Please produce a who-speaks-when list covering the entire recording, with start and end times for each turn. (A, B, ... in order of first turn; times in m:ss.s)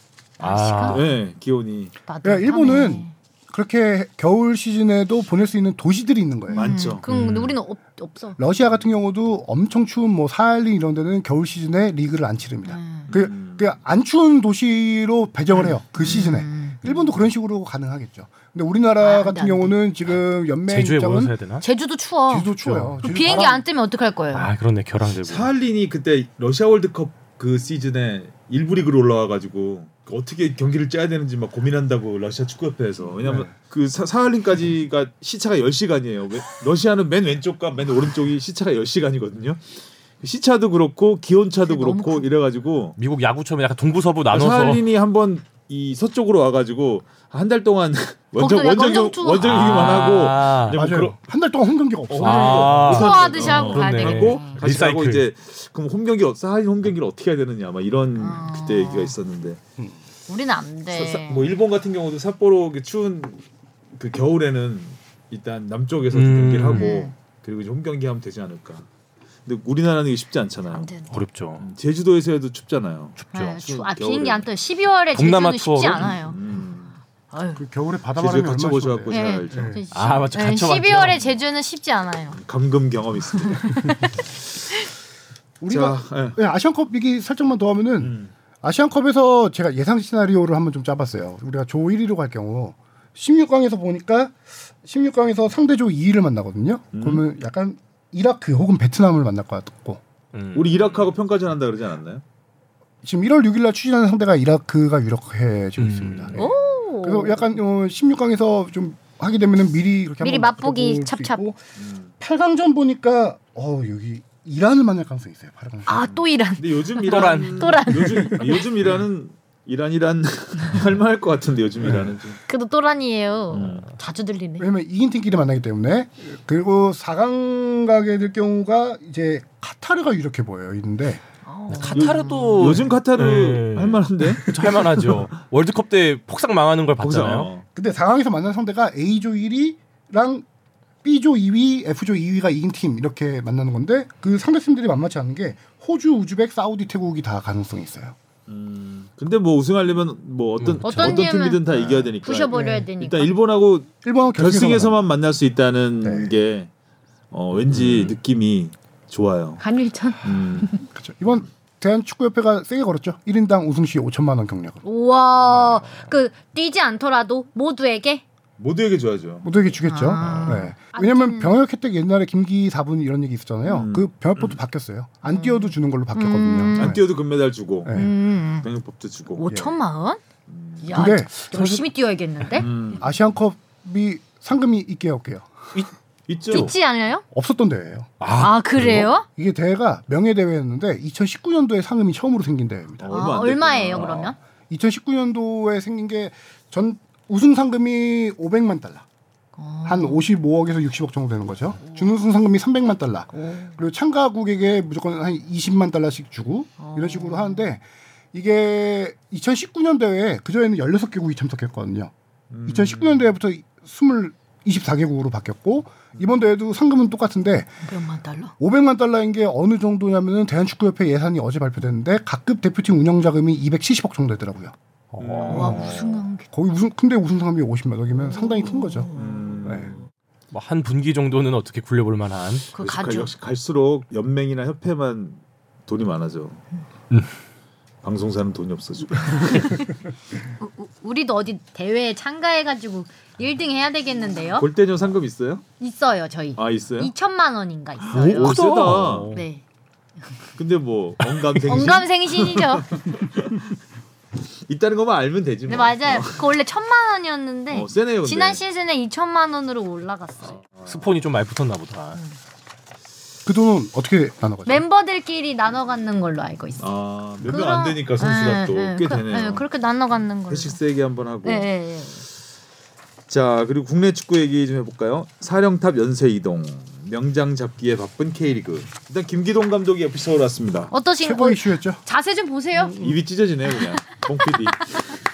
0:00.4-0:01.1 A
0:00.4-0:01.0 B
0:00.9-0:01.9 C
0:02.1-0:03.1 A
0:02.2-0:06.8 D
0:06.5-0:08.4 A
0:06.5-0:07.0 C
0:07.1-0:07.6 B
0:08.4-0:21.3 D
0:12.6-0:13.1 A
0:13.1-0:13.7 C
0:16.0-0:16.8 A
0:19.0-0:19.8 A
0:20.7-0:21.6 B
0:21.6-0:22.5 A
0:22.3-0:23.6 D
0:22.6-0:23.0 B
0:23.0-0:24.5 A
0:24.3-0:25.5 B
0:25.1-0:39.6 C
0:40.2-0:43.0 C
0:41.6-0:42.3 A
0:43.0-0:44.8 B
0:44.3-0:51.2 C
0:48.4-0:49.8 A
0:49.4-0:50.8 B
0:50.7-0:52.9 D
0:52.1-0:59.6 C
0:52.2-0:55.2 B
0:52.8-0:54.6 A
0:58.2-0:59.1 A
1:00.3-1:01.5 A
1:00.9-1:03.4 C
1:04.0-1:08.8 C
1:06.1-1:06.9 B
1:06.7-1:07.1 A
1:09.4-1:10.9 C
1:10.7-1:11.1 A
1:11.1-1:11.6 B
1:11.6-1:14.5 C
1:13.2-1:13.6 B
1:13.3-1:16.4 A
1:15.1-1:16.1 B
1:16.0-1:16.9 C
1:17.3-1:17.6 A
1:17.6-1:19.8 D
1:18.2-1:19.8 C
1:19.1-1:22.4 A
1:19.9-1:21.2 B
1:22.3-1:23.9 C
1:23.5-1:24.1 A
1:25.6-1:40.0 D
1:25.7-1:26.4 C
1:28.0-1:28.3 C
1:36.9-1:37.2 C
1:40.3-1:41.0 B
1:40.5-1:42.2 C
1:43.0-1:51.6 D
1:45.8-1:46.4 B
1:46.3-1:47.4 A
1:50.2-1:51.4 A
1:51.8-1:52.1 C
1:52.2-1:56.0 D
1:55.8-1:58.6 A
1:56.6-2:02.4 C
1:57.0-1:57.8 B
2:01.8-2:02.1 D
2:02.5-2:04.7 A
2:03.5-2:03.9 C
2:04.6-2:11.2 D
2:11.4-2:12.8 A
2:11.7-2:17.5 B
2:11.9-2:15.3 C
2:17.0-2:17.6 C
2:17.7-2:20.4 D
2:21.0-2:28.1 D
2:28.5-2:36.7 C
2:30.6-2:31.2 B
2:30.8-2:31.6 A
2:32.2-2:33.3 A
2:32.5-2:32.9 D
2:34.0-2:35.0 D
2:36.0-2:36.3 D
2:37.3-2:39.6 C
2:39.6-2:40.8 A
2:40.2-2:40.7 C
2:40.9-2:44.8 D
2:44.8-2:48.2 A
2:48.6-2:49.5 C
2:49.4-2:57.1 D
2:49.8-2:51.6 A
2:50.2-2:50.6 B
2:53.6-2:54.6 C
2:55.3-2:57.0 A
2:56.7-2:57.9 C
2:57.8-2:58.1 D
2:57.9-2:58.7 A
2:58.6-2:59.4 C
2:59.3-3:00.2 A
2:59.4-2:59.8 D
3:00.5-3:00.9 C
3:00.8-3:02.7 A
3:00.9-3:01.8 D
3:02.5-3:03.2 C
3:02.9-3:05.7 D
3:06.3-3:06.7 C
3:06.5-3:07.2 A
3:07.3-3:08.1 D
3:08.2-3:09.1 B
3:08.4-3:09.3 A
3:08.8-3:13.1 D
3:13.0-3:14.3 C
3:13.1-3:14.4 A
3:14.0-3:14.3 B
3:14.7-3:19.0 D
3:19.6-3:20.3 A
3:19.8-3:32.1 D
3:23.3-3:23.7 A
3:26.8-3:27.7 A
3:32.5-3:33.3 C
3:32.6-3:37.7 D
3:37.8-3:38.5 A
3:38.6-3:44.7 D
3:45.1-3:46.0 B
3:45.2-3:46.0 C
3:45.5-3:46.5 A
3:45.5-3:45.8 D
3:46.5-3:49.1 D
3:48.5-3:49.4 A
3:49.1-3:50.0 C
3:49.6-3:49.9 D
3:50.5-3:52.6 B
3:52.7-3:53.3 A
3:52.8-3:56.6 C
3:58.0-3:59.8 C
3:59.3-3:59.8 A
4:00.6-4:04.7 A
4:04.6-4:05.6 C
4:05.8-4:08.6 A
4:06.6-4:07.1 C
4:08.1-4:09.4 B
4:08.1-4:09.4 C
4:09.3-4:09.6 A
4:10.6-4:13.6 C
4:11.6-4:12.9 A
4:14.7-4:16.5 C
4:15.7-4:20.6 A
4:17.7-4:18.6 C
4:20.8-4:22.2 B
4:23.4-4:24.8 D
4:24.6-4:26.8 A
4:26.8-4:29.6 C
4:27.4-4:30.8 A
4:30.5-4:31.7 C
4:31.4-4:32.2 A
4:33.3-4:40.9 C
4:40.9-4:43.1 A
4:41.2-4:42.0 D
4:42.9-4:45.0 C